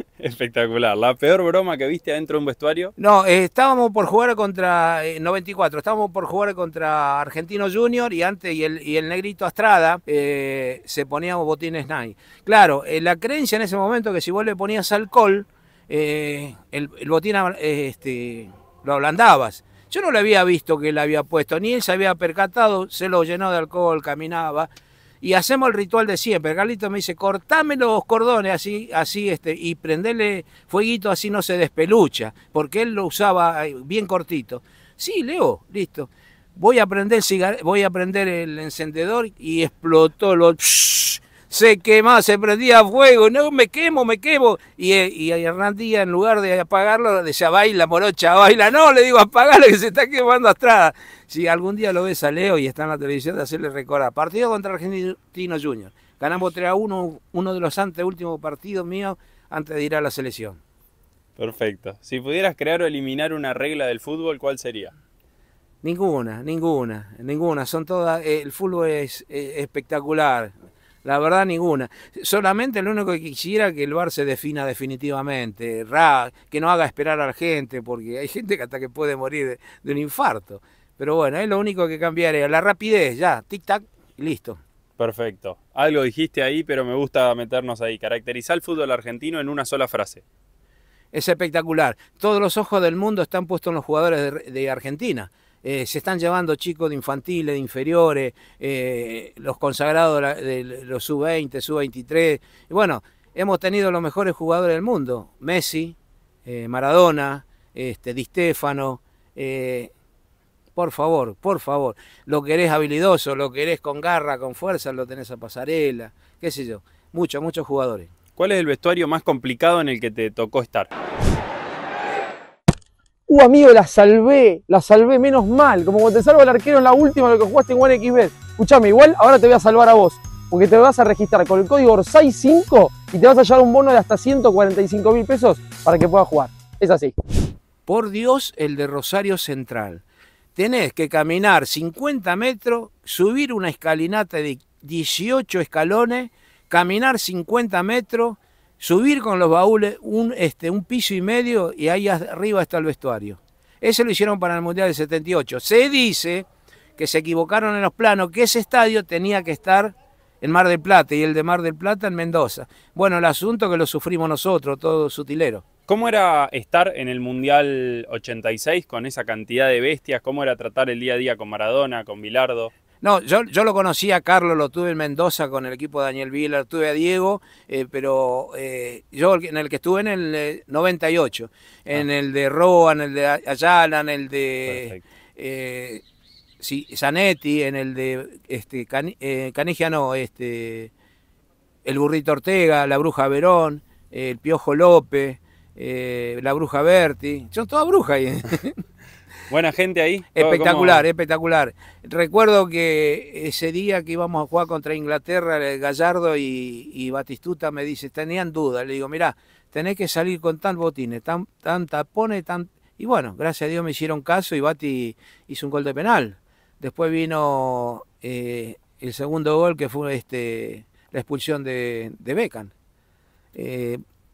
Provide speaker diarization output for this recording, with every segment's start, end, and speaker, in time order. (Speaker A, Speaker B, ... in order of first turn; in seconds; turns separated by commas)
Speaker A: 0.2-2.9, Speaker B: 3.0-24.7, Speaker B: 25.2-60.6, Speaker A: 61.4-64.9, Speaker B: 65.8-70.5, Speaker B: 71.0-84.6, Speaker A: 85.0-90.2, Speaker B: 91.1-109.9, Speaker B: 110.8-118.1, Speaker A: 118.4-120.9, Speaker C: 123.3-137.1, Speaker B: 137.8-140.0, Speaker B: 140.6-165.6, Speaker A: 165.9-172.7, Speaker B: 173.0-186.0, Speaker A: 184.7-185.0, Speaker B: 186.6-190.9, Speaker B: 191.8-198.8, Speaker A: 199.5-201.0, Speaker B: 200.3-222.7, Speaker B: 223.5-224.0